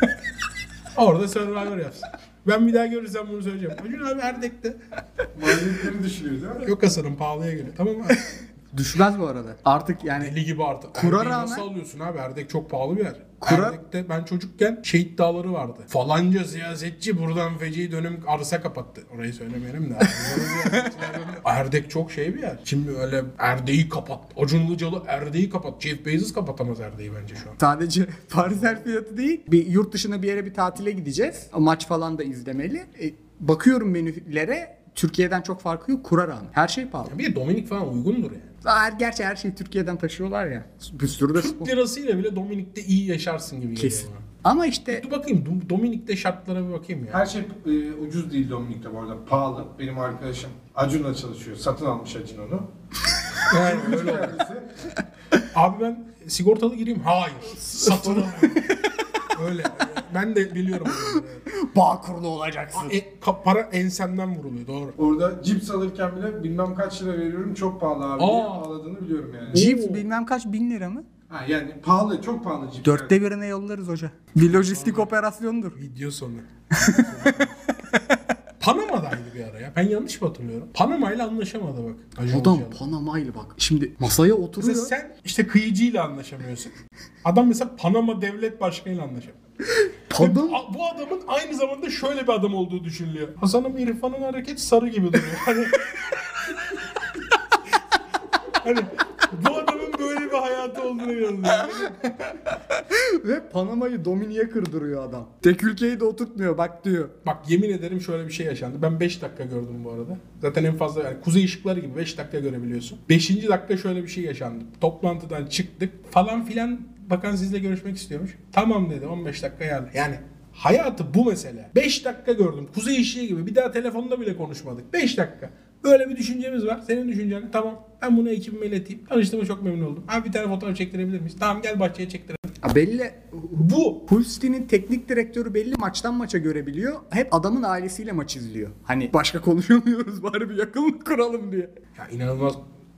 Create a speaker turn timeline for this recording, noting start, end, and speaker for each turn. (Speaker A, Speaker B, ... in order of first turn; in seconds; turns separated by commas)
Speaker A: 0.9-4.8, Speaker B: 5.3-6.7, Speaker A: 6.6-8.2, Speaker C: 8.1-10.3, Speaker A: 10.2-27.6, Speaker C: 10.9-11.7, Speaker C: 13.4-13.8, Speaker C: 20.0-21.3, Speaker C: 27.6-37.1, Speaker A: 37.1-38.5, Speaker C: 38.6-41.7, Speaker A: 41.4-44.2, Speaker C: 43.8-45.0, Speaker A: 44.9-47.3, Speaker B: 47.1-52.7, Speaker B: 53.5-54.7, Speaker A: 53.5-54.4, Speaker A: 55.5-61.4, Speaker C: 57.6-58.9, Speaker C: 60.9-63.0, Speaker A: 62.7-65.0, Speaker B: 65.0-69.6, Speaker A: 68.2-68.7, Speaker A: 69.5-70.0, Speaker C: 69.5-71.0, Speaker B: 71.3-73.1, Speaker C: 72.8-75.8, Speaker A: 74.4-75.1, Speaker A: 75.8-77.5, Speaker C: 76.7-77.1, Speaker A: 78.6-82.8, Speaker C: 82.3-84.9, Speaker A: 84.6-89.4, Speaker C: 89.8-90.6, Speaker A: 90.2-96.5, Speaker A: 98.5-102.1, Speaker C: 101.8-107.1, Speaker A: 107.2-132.5, Speaker C: 132.6-141.7, Speaker A: 133.6-134.1, Speaker A: 142.0-142.6